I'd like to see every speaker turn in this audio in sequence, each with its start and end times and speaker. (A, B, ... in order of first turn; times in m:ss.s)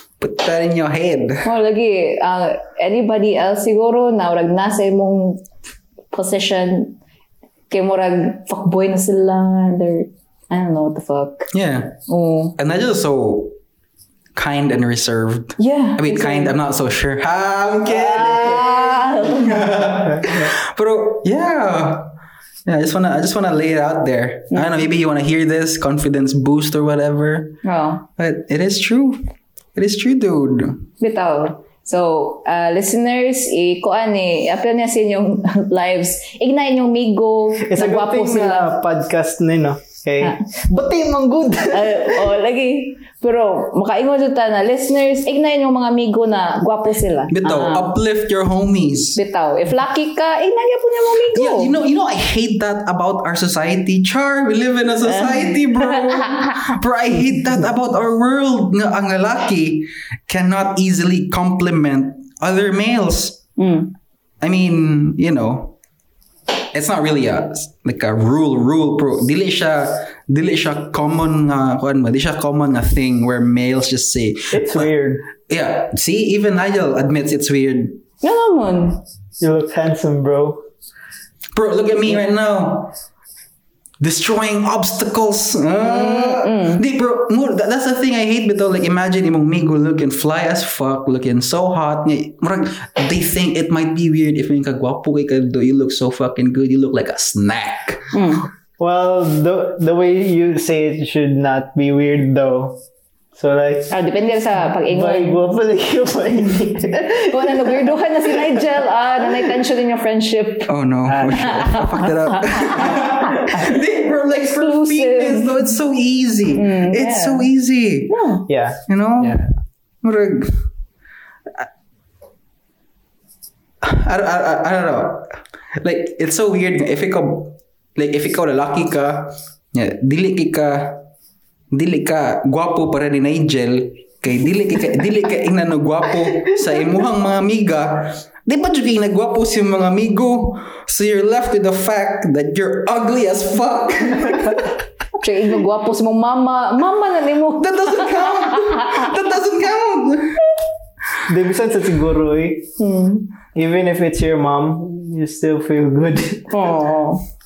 0:00.2-0:01.5 A
0:01.4-0:05.4 B
0:06.1-0:07.0 B
0:07.7-0:11.5 B
0:11.5-0:12.0 A
0:12.1-0:12.6 B
0:12.6-0:13.6 A
0:14.4-0:22.1 A
0:15.6-0:16.6 B
0:17.9-0:19.8 B
0:19.8-0:20.5 C
0:22.7-0:27.6 A
0:27.6-0:28.0 B
0:28.2-0:29.2 A
0:29.8-0:30.8 A
0:31.0-0:38.7 B
0:37.6-0:42.3 C
0:41.7-0:47.9 B
0:47.3-0:49.2 A
0:49.2-0:51.7 B
0:51.3-1:03.4 A
0:55.0-0:56.7 B
1:03.6-1:03.9 B
1:04.4-1:05.8 A
1:06.7-1:14.9 A
1:14.5-1:15.3 C
1:15.4-1:18.0 A
1:18.2-1:19.0 B
1:19.4-1:20.6 C
1:21.5-1:22.9 A
1:24.0-1:38.1 A
1:25.8-1:26.8 B
1:38.1-1:38.5 B
1:38.8-1:42.8 C
1:43.4-1:43.9 C
1:43.9-1:45.4 B
1:44.9-1:48.7 C
1:46.9-1:50.7 B
1:50.7-1:58.1 A
1:51.1-1:51.6 C
1:51.3-1:53.8 B
1:54.3-1:55.7 B
1:56.5-1:57.5 B
1:58.1-1:58.5 B
1:58.5-1:59.5 C
1:58.9-1:59.4 A
2:00.0-2:00.7 A
2:03.8-2:11.1 A
2:11.7-2:24.8 A
2:25.2-2:29.1 B
2:27.6-2:30.4 A
2:31.2-2:32.7 C
2:32.8-2:33.3 B
2:33.5-2:36.5 C
2:36.5-2:37.2 B